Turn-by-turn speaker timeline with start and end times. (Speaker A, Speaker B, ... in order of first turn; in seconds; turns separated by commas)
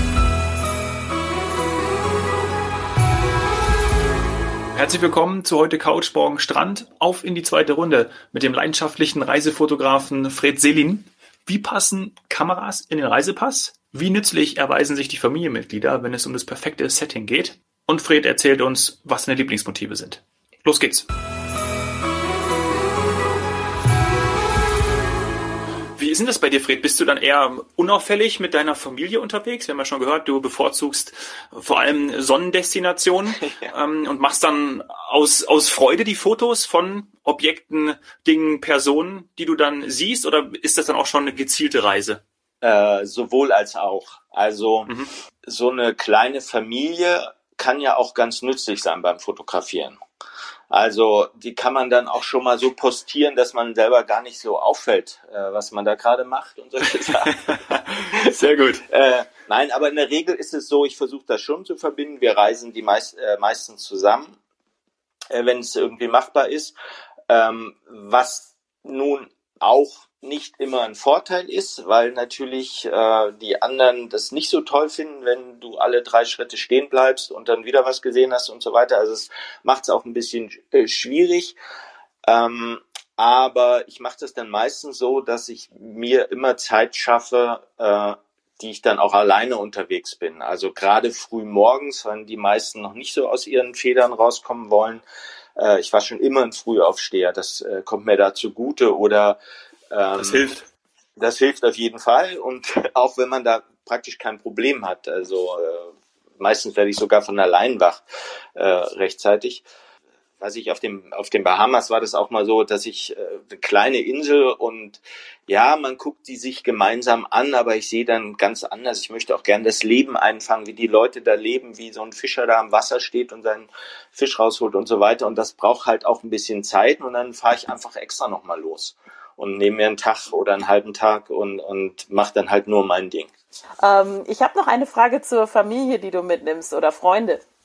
Speaker A: 4.7-21.1, Speaker A: 25.9-42.2, Speaker B: 33.4-33.7, Speaker B: 42.6-44.9, Speaker B: 45.5-50.0, Speaker B: 50.7-57.4, Speaker A: 57.2-58.8, Speaker B: 58.9-64.4, Speaker B: 65.3-66.7, Speaker B: 67.3-81.5, Speaker B: 82.2-95.0, Speaker B: 95.5-99.4, Speaker B: 99.9-100.5, Speaker A: 100.2-100.6, Speaker B: 101.2-108.0, Speaker B: 108.5-109.6, Speaker B: 110.4-133.3, Speaker C: 133.8-137.4